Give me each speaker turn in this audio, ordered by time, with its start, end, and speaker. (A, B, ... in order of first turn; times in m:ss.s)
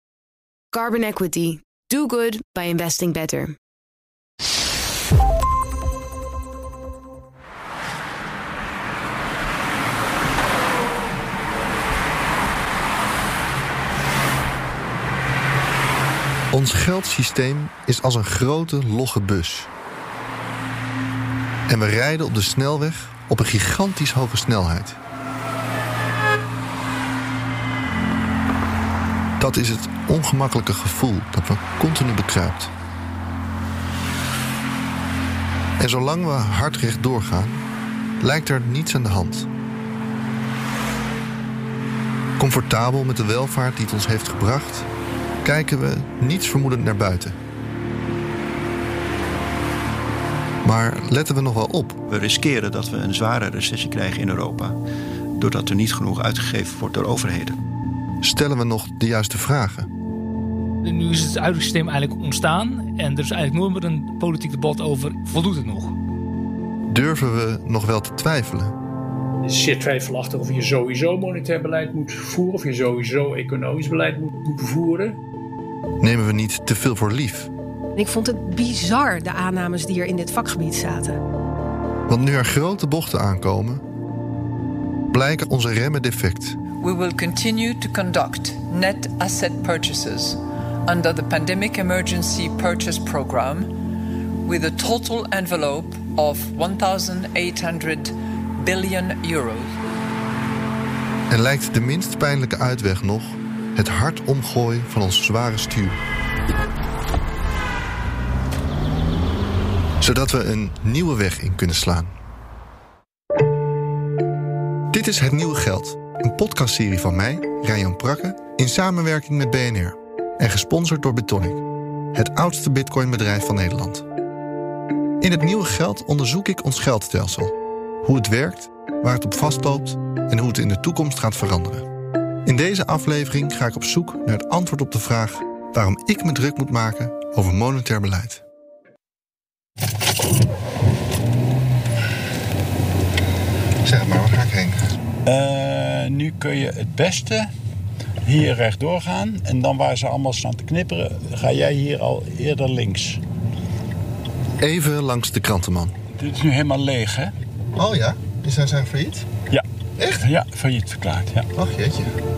0:00.7-0:03.5 A
0:16.5-0:19.7 B
0:21.7-0:25.0 B
0:29.4-0:32.7 B
0:35.8-0:37.6 B
0:38.2-0:39.5 B
0:42.4-0:44.9 B
0:45.4-0:47.4 B
0:50.6-0:52.0 B
0:52.1-0:54.8 C
0:55.4-0:57.6 C
0:58.2-0:59.9 B
1:00.8-1:06.0 D
1:06.9-1:08.8 B
1:09.4-1:15.2 E
1:16.0-1:17.5 B
1:18.0-1:21.2 F
1:22.1-1:23.8 B
1:25.1-1:26.6 B
1:26.8-1:33.8 G
1:34.4-1:39.8 G
1:41.3-1:46.0 B
1:50.0-1:52.1 B
1:54.9-2:01.6 B
2:02.1-2:04.0 B
2:05.2-2:11.9 B
2:12.4-2:18.4 B
2:23.8-2:24.9 B
2:25.2-2:27.5 H
2:28.2-2:33.2 H
2:34.6-2:36.0 B
2:36.1-2:37.3 H
2:37.8-2:39.3 B
2:40.0-2:40.2 B
2:40.2-2:41.5 H
2:41.5-2:42.2 B